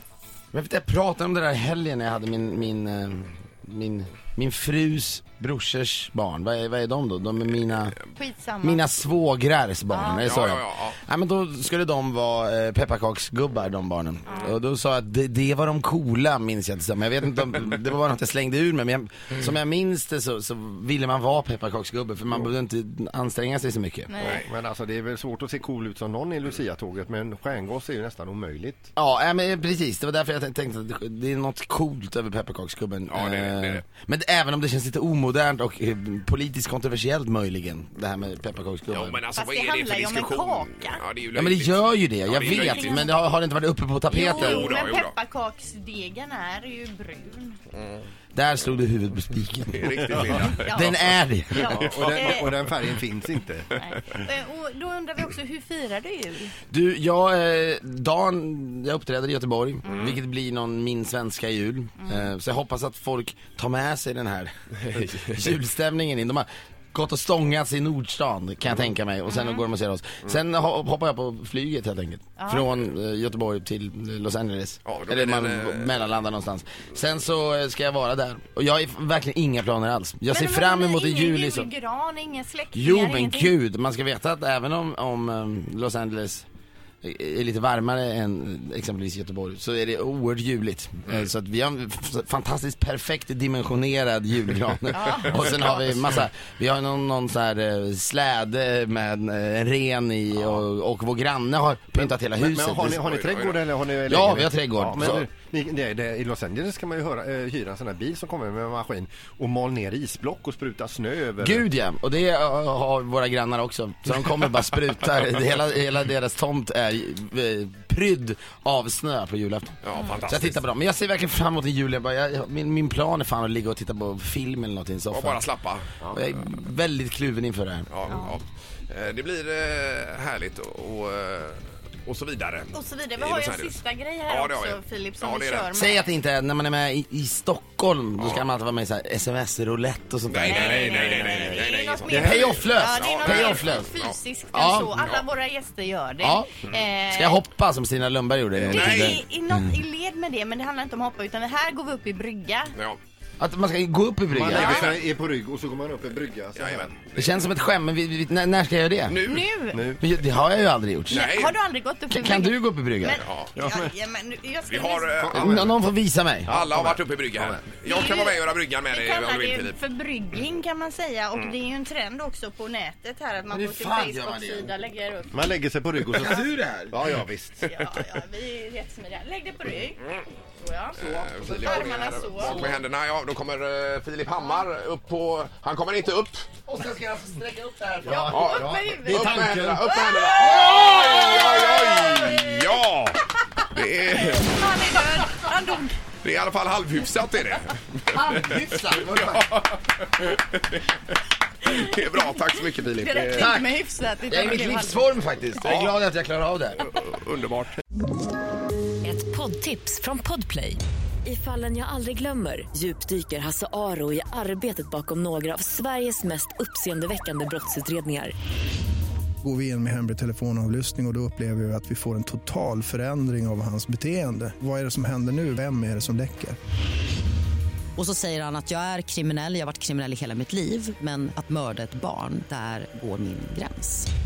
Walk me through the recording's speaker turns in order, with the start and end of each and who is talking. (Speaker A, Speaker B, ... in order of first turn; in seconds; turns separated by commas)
Speaker A: 0.5-8.0, Speaker B: 8.2-8.9, Speaker A: 8.6-24.2, Speaker B: 9.9-10.3, Speaker C: 10.1-11.0, Speaker B: 14.3-14.6, Speaker B: 24.1-24.4, Speaker C: 24.2-24.5, Speaker D: 24.3-28.9, Speaker A: 29.0-39.2, Speaker C: 33.1-33.8, Speaker C: 38.9-43.1, Speaker B: 39.4-41.0, Speaker A: 41.4-44.8, Speaker B: 42.4-43.1, Speaker B: 44.1-47.6, Speaker C: 44.1-45.1, Speaker A: 48.4-51.9, Speaker C: 49.7-50.9, Speaker B: 50.4-52.5, Speaker D: 51.7-53.7, Speaker C: 51.7-52.2, Speaker B: 53.8-56.5, Speaker A: 56.7-81.7, Speaker C: 59.9-60.2, Speaker B: 62.0-62.3, Speaker C: 64.9-65.2, Speaker B: 69.3-69.7, Speaker B: 72.4-72.7, Speaker C: 74.8-76.0, Speaker B: 80.3-83.5, Speaker A: 82.8-86.5, Speaker A: 87.0-103.1, Speaker B: 94.9-95.9, Speaker C: 100.3-100.6, Speaker D: 102.0-111.7, Speaker C: 103.0-103.8, Speaker A: 104.1-105.3, Speaker A: 111.4-125.5, Speaker C: 119.8-120.6, Speaker C: 125.1-126.1, Speaker A: 126.1-127.9, Speaker C: 127.9-133.8, Speaker B: 132.7-136.1, Speaker C: 134.3-135.7, Speaker A: 135.7-141.6, Speaker C: 138.2-138.5, Speaker C: 140.3-144.2, Speaker B: 140.4-147.4, Speaker A: 142.1-143.9, Speaker D: 142.1-142.4, Speaker A: 144.5-144.9, Speaker C: 145.0-145.2, Speaker A: 146.2-146.5, Speaker A: 147.1-149.6, Speaker C: 148.6-149.2, Speaker B: 148.7-152.8, Speaker C: 152.7-153.0, Speaker A: 153.4-155.0, Speaker D: 154.3-157.1, Speaker C: 154.5-155.0, Speaker C: 156.6-157.5, Speaker A: 157.2-159.2, Speaker C: 159.1-159.5, Speaker B: 159.2-159.8, Speaker D: 159.7-160.0, Speaker A: 160.0-161.3, Speaker B: 161.1-165.2, Speaker C: 161.1-161.6, Speaker A: 162.1-163.2, Speaker C: 163.2-163.6, Speaker C: 164.7-165.5, Speaker D: 165.1-165.8, Speaker A: 165.3-166.6, Speaker C: 166.5-169.8, Speaker D: 166.5-167.6, Speaker B: 167.8-175.5, Speaker A: 173.5-174.7, Speaker D: 175.3-177.7, Speaker A: 176.1-177.1, Speaker B: 177.7-180.1, Speaker B: 180.6-182.7, Speaker C: 181.0-186.5, Speaker A: 186.7-192.6, Speaker B: 188.1-191.5, Speaker C: 188.2-194.6, Speaker B: 194.0-196.0, Speaker C: 196.1-200.9, Speaker A: 198.1-199.5, Speaker C: 201.6-203.5, Speaker B: 201.7-202.4, Speaker B: 203.0-205.2, Speaker A: 203.3-203.7, Speaker A: 204.3-206.9, Speaker C: 205.6-205.9, Speaker C: 206.8-207.8, Speaker E: 209.0-218.3, Speaker F: 219.4-226.6, Speaker G: 228.0-234.1